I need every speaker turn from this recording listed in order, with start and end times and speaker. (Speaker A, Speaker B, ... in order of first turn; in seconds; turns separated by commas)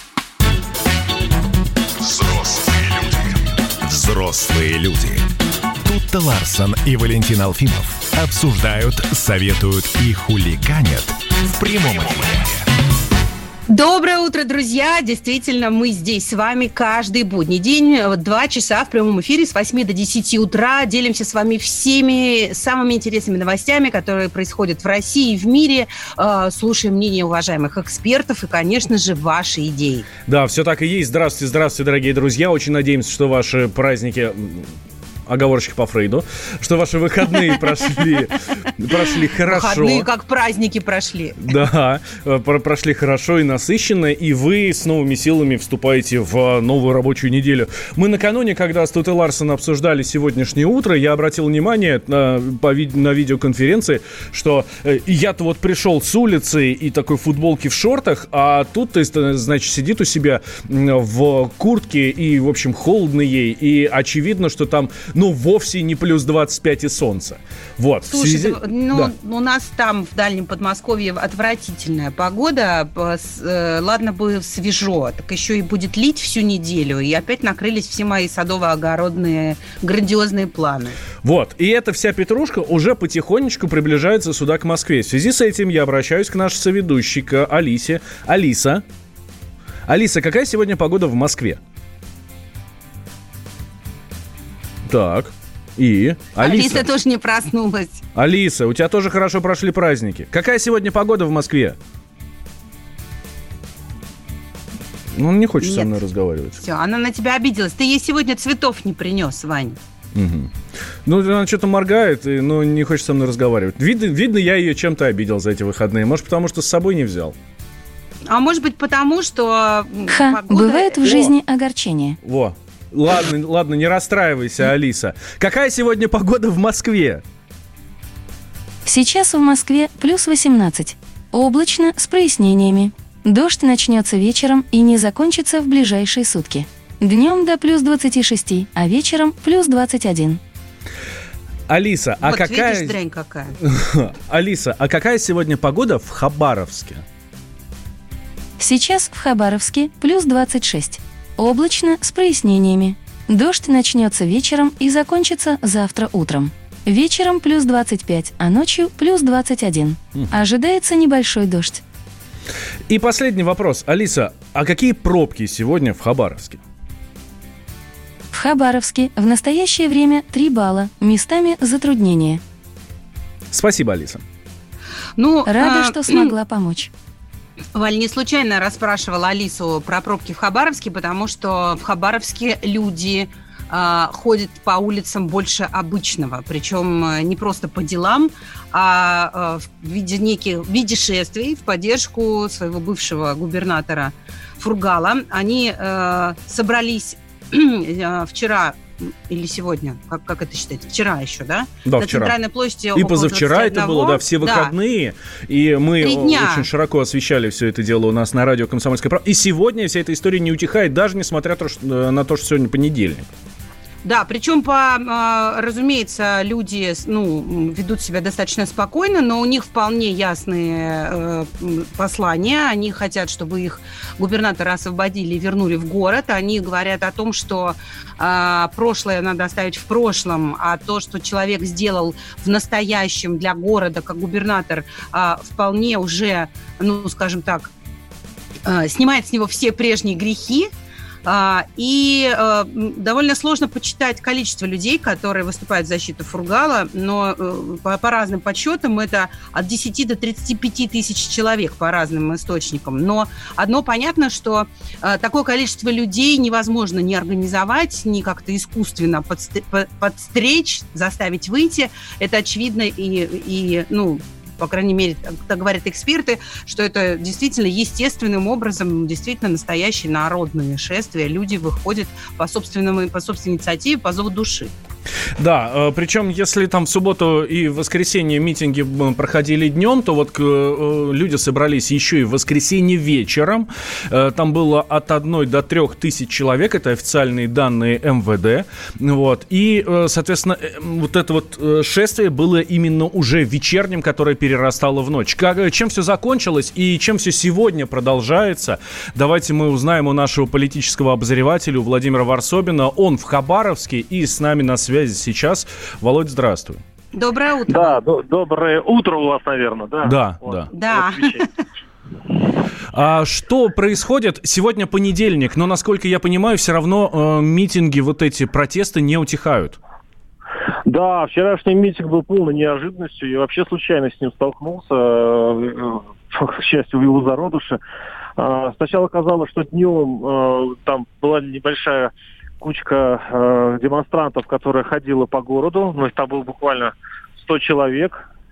Speaker A: 2.0-3.0, Speaker A: 3.8-5.2, Speaker A: 5.8-12.7, Speaker B: 13.7-30.1, Speaker C: 30.3-34.7, Speaker C: 35.3-40.0, Speaker B: 38.9-41.5, Speaker C: 41.4-69.1, Speaker B: 68.1-81.0, Speaker C: 81.2-88.8, Speaker C: 89.9-91.6, Speaker C: 94.9-96.9, Speaker B: 96.4-98.0, Speaker C: 98.1-101.8, Speaker C: 105.2-106.6, Speaker B: 105.6-105.9, Speaker B: 106.6-109.8, Speaker C: 110.1-110.5, Speaker C: 111.0-117.4, Speaker B: 118.3-121.3, Speaker D: 120.1-122.2, Speaker C: 122.2-127.2, Speaker D: 128.8-140.4, Speaker C: 141.7-142.9, Speaker B: 142.2-143.6, Speaker C: 143.6-147.0, Speaker D: 148.6-161.8, Speaker C: 162.9-166.6, Speaker D: 168.3-172.4, Speaker C: 173.5-174.2, Speaker B: 175.2-176.3, Speaker D: 175.5-176.9, Speaker B: 177.7-204.7, Speaker C: 201.8-202.3, Speaker C: 202.9-213.3, Speaker B: 206.0-206.7, Speaker B: 214.0-237.7, Speaker B: 238.6-240.7, Speaker B: 241.2-274.7, Speaker C: 275.4-306.8, Speaker B: 307.1-308.0, Speaker E: 307.7-311.4, Speaker C: 310.0-310.7, Speaker B: 310.7-311.5, Speaker C: 312.9-319.8, Speaker E: 320.9-327.8, Speaker E: 328.4-338.2